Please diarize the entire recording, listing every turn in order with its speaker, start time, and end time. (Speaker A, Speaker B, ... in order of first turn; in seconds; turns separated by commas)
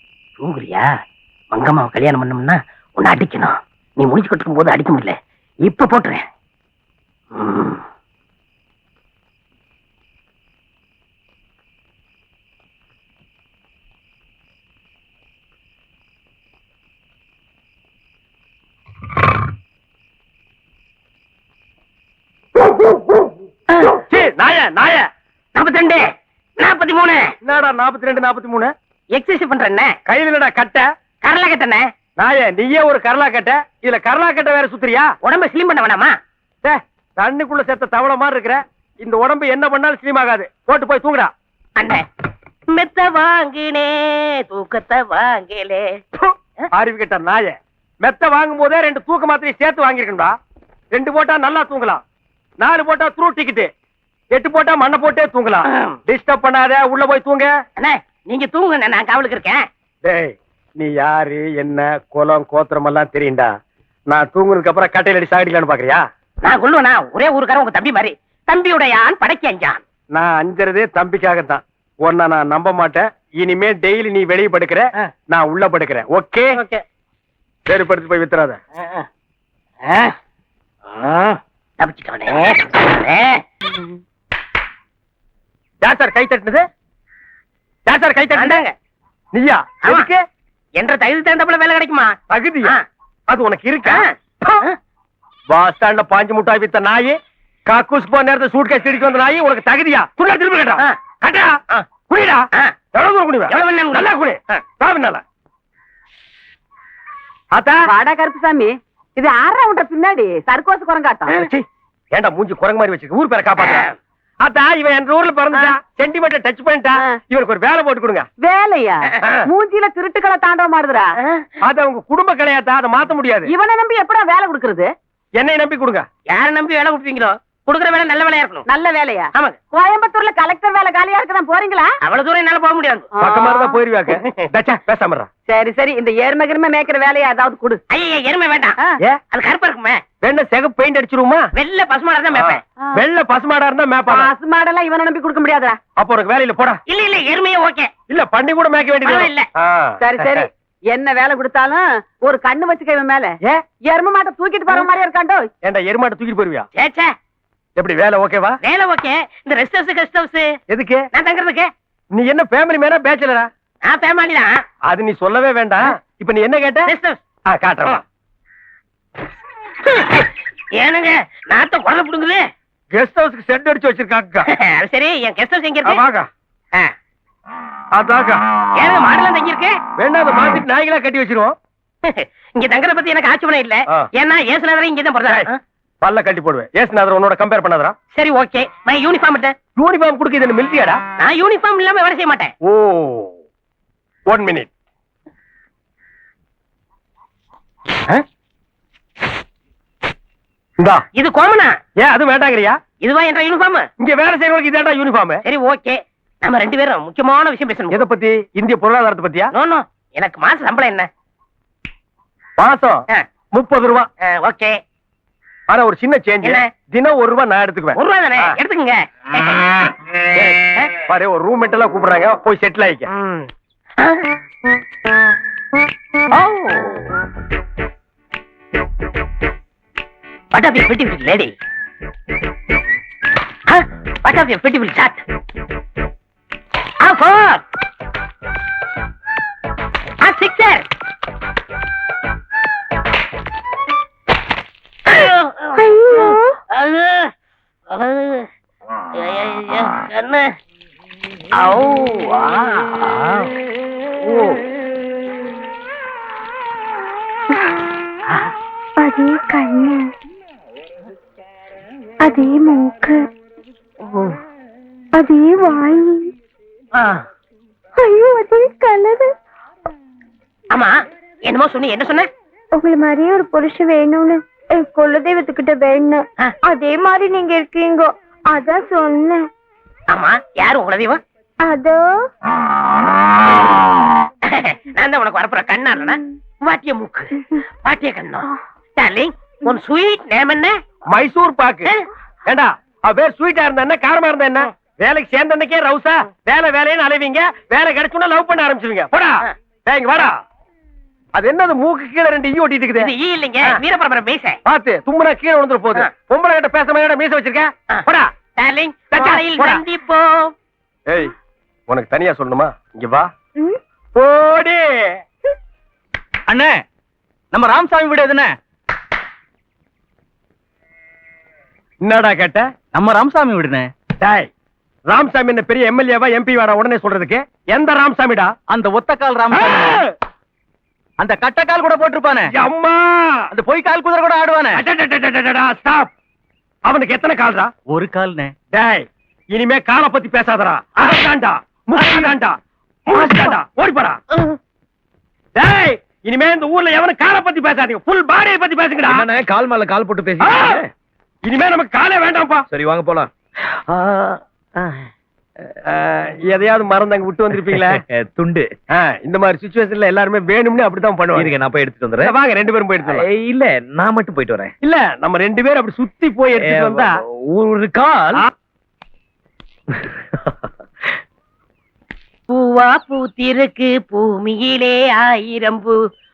Speaker A: 0.4-0.9, Speaker A: 1.5-5.1, Speaker A: 5.7-6.2, Speaker A: 7.3-7.8, Speaker B: 24.1-25.1, Speaker A: 25.6-26.1, Speaker A: 26.6-27.3, Speaker B: 27.4-28.7, Speaker A: 29.1-29.9, Speaker B: 30.1-30.9, Speaker A: 31.2-31.9, Speaker B: 32.2-35.1, Speaker A: 35.2-36.1, Speaker B: 36.6-41.3, Speaker A: 41.8-42.0, Speaker A: 42.7-46.0, Speaker B: 46.2-50.3, Speaker B: 50.9-52.0, Speaker B: 52.6-53.7, Speaker B: 54.3-57.5, Speaker A: 55.7-56.0, Speaker A: 57.8-59.6, Speaker B: 60.0-63.5, Speaker B: 64.1-66.0, Speaker A: 66.4-69.8, Speaker B: 70.1-76.6, Speaker A: 76.5-76.8, Speaker B: 77.7-78.6, Speaker A: 78.8-79.1, Speaker A: 79.8-80.1, Speaker A: 80.9-83.8, Speaker B: 85.8-86.6, Speaker B: 87.9-88.6, Speaker A: 88.4-88.7, Speaker B: 89.3-90.2, Speaker A: 89.8-90.1, Speaker A: 90.8-92.8, Speaker B: 92.3-92.8, Speaker B: 93.3-94.6, Speaker A: 93.9-94.8, Speaker B: 95.5-105.2, Speaker A: 103.5-104.6, Speaker B: 107.5-107.9, Speaker C: 107.9-111.4, Speaker A: 111.3-111.6, Speaker B: 112.1-113.9, Speaker A: 113.6-113.9, Speaker B: 114.4-118.3, Speaker C: 118.4-121.1, Speaker B: 121.6-123.5, Speaker C: 123.5-124.9, Speaker B: 125.4-126.1, Speaker A: 126.3-128.7, Speaker C: 128.7-131.9, Speaker A: 132.1-133.1, Speaker C: 133.2-133.8, Speaker B: 133.2-135.3, Speaker C: 135.5-137.8, Speaker A: 137.9-138.8, Speaker A: 139.3-140.0, Speaker B: 140.2-141.4, Speaker A: 141.6-142.6, Speaker B: 142.3-144.3, Speaker C: 144.1-145.8, Speaker B: 146.0-146.8, Speaker A: 146.9-147.9, Speaker B: 148.1-150.5, Speaker A: 149.1-149.5, Speaker C: 150.0-155.5, Speaker B: 155.6-156.7, Speaker A: 156.8-157.1, Speaker B: 157.8-158.6, Speaker A: 158.6-160.6, Speaker B: 160.7-161.0, Speaker A: 161.1-161.7, Speaker B: 162.1-163.5, Speaker A: 163.9-164.6, Speaker B: 164.8-166.9, Speaker A: 166.9-167.2, Speaker B: 167.5-168.0, Speaker A: 169.9-172.4, Speaker B: 172.9-174.5, Speaker A: 174.5-176.0, Speaker B: 175.8-176.3, Speaker B: 177.9-178.4, Speaker A: 178.8-179.8, Speaker B: 180.0-181.6, Speaker A: 182.1-185.6, Speaker B: 186.0-188.0, Speaker A: 188.1-189.5, Speaker B: 189.8-191.0, Speaker A: 191.2-192.5, Speaker B: 192.6-193.3, Speaker B: 194.3-194.7, Speaker A: 201.2-201.7, Speaker B: 202.0-202.8, Speaker A: 203.0-203.9, Speaker B: 204.0-205.4, Speaker A: 205.4-208.0, Speaker B: 207.9-209.5, Speaker A: 209.5-211.1, Speaker B: 212.6-214.1, Speaker A: 214.2-214.8, Speaker B: 215.7-218.6, Speaker A: 218.0-219.6, Speaker B: 221.1-223.1, Speaker A: 223.2-223.5, Speaker A: 224.0-224.3, Speaker A: 226.3-227.1, Speaker A: 230.5-231.5, Speaker A: 233.7-235.2, Speaker A: 237.0-237.6, Speaker A: 240.2-240.8, Speaker A: 245.1-247.3, Speaker D: 245.8-246.6, Speaker A: 247.9-248.5, Speaker A: 249.2-250.5, Speaker A: 251.6-253.5, Speaker A: 254.2-254.6, Speaker D: 259.0-260.1, Speaker D: 262.2-263.2, Speaker A: 264.0-264.4, Speaker D: 265.2-266.3, Speaker A: 267.0-267.2, Speaker D: 268.0-269.3, Speaker A: 270.7-272.3, Speaker D: 272.8-279.4, Speaker A: 280.1-281.2, Speaker D: 281.6-282.1, Speaker A: 284.5-290.8, Speaker B: 291.1-291.9, Speaker B: 292.5-300.4, Speaker B: 301.4-303.1, Speaker A: 303.0-304.6, Speaker B: 304.6-308.3, Speaker A: 307.9-310.5, Speaker B: 309.1-309.8, Speaker B: 311.9-313.3, Speaker B: 314.1-315.1, Speaker E: 316.5-316.8, Speaker E: 317.5-318.6, Speaker B: 322.0-322.7, Speaker E: 322.9-323.9, Speaker B: 324.2-324.5, Speaker B: 325.1-328.5, Speaker E: 328.7-330.0, Speaker B: 329.5-330.1, Speaker E: 331.2-332.5, Speaker B: 332.5-333.5, Speaker E: 333.5-334.8, Speaker B: 334.7-336.1, Speaker B: 336.9-337.7, Speaker E: 337.9-338.5, Speaker B: 338.7-342.6, Speaker B: 343.1-344.2, Speaker B: 345.6-349.3, Speaker E: 349.1-350.9, Speaker B: 350.4-350.8, Speaker B: 351.4-352.6, Speaker E: 352.7-353.3, Speaker E: 353.9-355.1, Speaker B: 355.9-358.0, Speaker E: 357.5-358.7, Speaker B: 358.9-361.6, Speaker E: 361.4-362.3, Speaker B: 362.2-363.3, Speaker E: 363.0-364.7, Speaker B: 364.8-367.2, Speaker E: 366.6-368.5, Speaker A: 372.5-376.0